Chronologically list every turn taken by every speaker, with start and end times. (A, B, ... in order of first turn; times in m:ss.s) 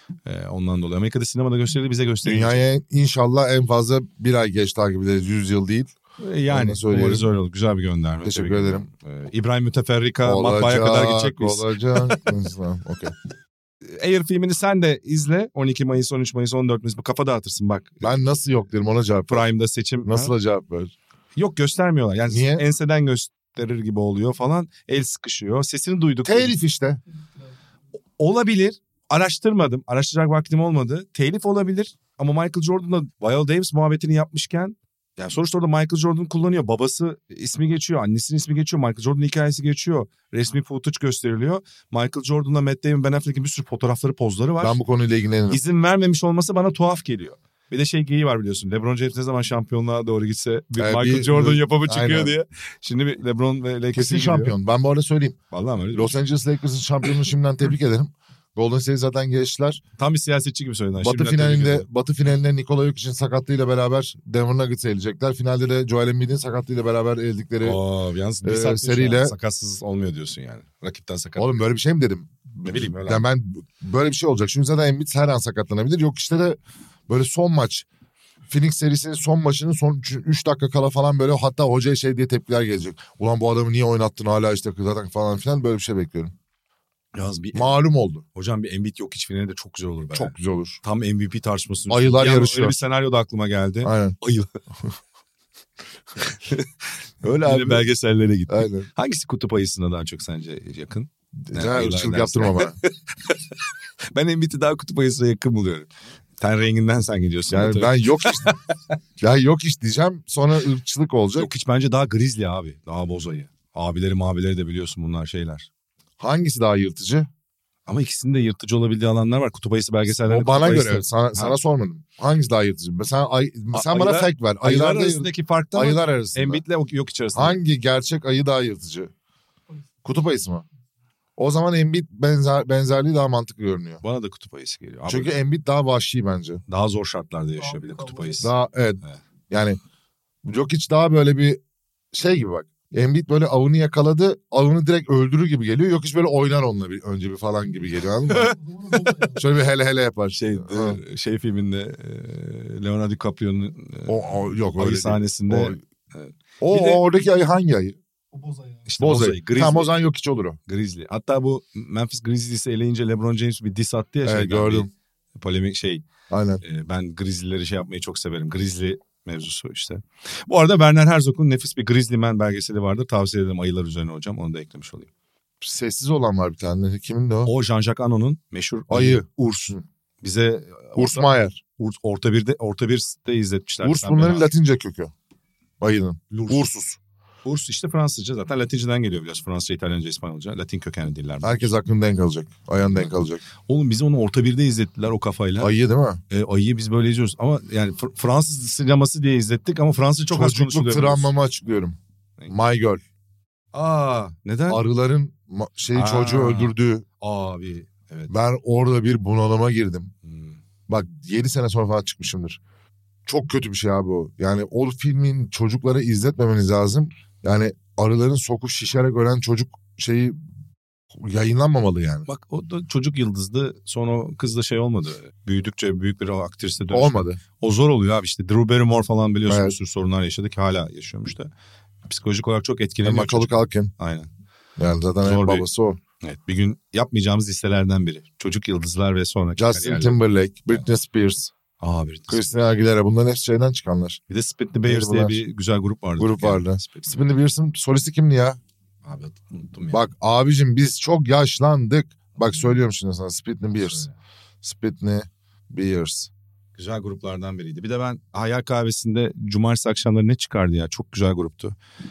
0:00.2-0:02.6 A
0:02.2-0:05.9 B
0:06.2-0:12.2 A
0:06.5-0:07.2 B
0:08.2-0:08.8 B
0:10.2-0:13.1 B
0:13.8-0:18.2 A
0:18.0-0:19.5 B
0:19.3-0:20.3 A
0:20.0-0:20.9 B
0:21.4-0:26.5 A
0:22.3-0:22.6 B
0:26.2-0:27.0 B
0:27.1-0:27.6 C
0:28.2-0:44.8 A
0:44.6-0:45.6 B
0:45.5-0:54.5 A
0:50.8-0:52.3 B
0:53.9-0:55.4 B
0:55.5-0:56.2 A
0:55.9-0:59.8 B
1:00.0-1:01.9 A
1:01.0-1:07.8 B
1:07.6-1:11.5 A
1:08.4-1:09.3 B
1:11.4-1:17.8 B
1:12.6-1:13.2 A
1:18.5-1:26.3 B
1:27.1-1:27.8 A
1:27.5-1:28.2 B
1:28.3-1:34.6 A
1:30.1-1:30.8 B
1:31.9-1:32.8 B
1:33.8-1:34.2 B
1:36.2-1:36.7 A
1:37.2-1:43.6 A
1:37.2-1:37.8 B
1:38.5-1:38.9 B
1:41.5-1:42.8 B
1:44.1-1:48.6 A
1:47.5-1:48.5 B
1:49.2-1:51.5 B
1:51.4-1:55.7 A
1:56.2-1:57.3 B
1:57.9-2:01.6 A
2:00.2-2:06.6 B
2:03.7-2:07.6 A
2:07.3-2:09.1 B
2:10.0-2:10.6 B
2:11.4-2:14.0 B
2:14.0-2:15.4 A
2:15.1-2:16.6 B
2:16.7-2:19.2 A
2:17.6-2:18.5 C
2:18.4-2:19.8 B
2:20.4-2:21.6 B
2:22.1-2:28.5 B
2:28.3-2:29.4 A
2:28.4-2:29.5 C
2:29.4-2:31.0 B
2:30.3-2:34.2 A
2:34.1-2:35.8 B
2:34.7-2:37.0 A
2:36.6-2:38.0 B
2:38.3-2:38.9 C
2:38.9-2:39.9 A
2:39.0-2:40.6 B
2:40.7-2:46.0 A
2:44.2-2:44.9 B
2:46.3-2:46.6 B
2:46.6-2:55.1 A
2:55.6-2:57.5 B
2:57.4-3:04.5 A
2:58.9-2:59.8 B
3:01.0-3:01.6 B
3:03.8-3:05.1 B
3:05.8-3:07.0 B
3:06.3-3:06.7 A
3:07.4-3:11.7 A
3:11.4-3:13.4 B
3:13.6-3:15.7 A
3:15.6-3:16.2 B
3:16.3-3:21.3 A
3:20.3-3:22.0 B
3:22.5-3:23.0 B
3:23.7-3:24.8 A
3:24.7-3:27.0 B
3:25.9-3:28.3 A
3:28.3-3:30.1 B
3:30.2-3:30.6 A
3:30.9-3:32.6 B
3:33.2-3:40.4 B
3:41.1-3:42.3 B
3:42.3-3:51.5 A
3:46.9-3:47.4 B
3:49.5-3:49.7 B
3:52.1-3:54.3 A
3:53.0-3:53.9 B
3:54.8-3:56.0 B
3:55.2-3:55.6 A
3:56.2-4:00.2 A
3:59.6-4:01.5 B
4:01.8-4:02.6 A
4:02.3-4:04.2 B
4:04.3-4:07.1 A
4:04.8-4:05.4 B
4:06.2-4:08.6 B
4:09.0-4:10.0 A
4:09.9-4:14.0 B
4:13.9-4:14.1 A
4:14.6-4:16.3 B
4:16.8-4:21.8 A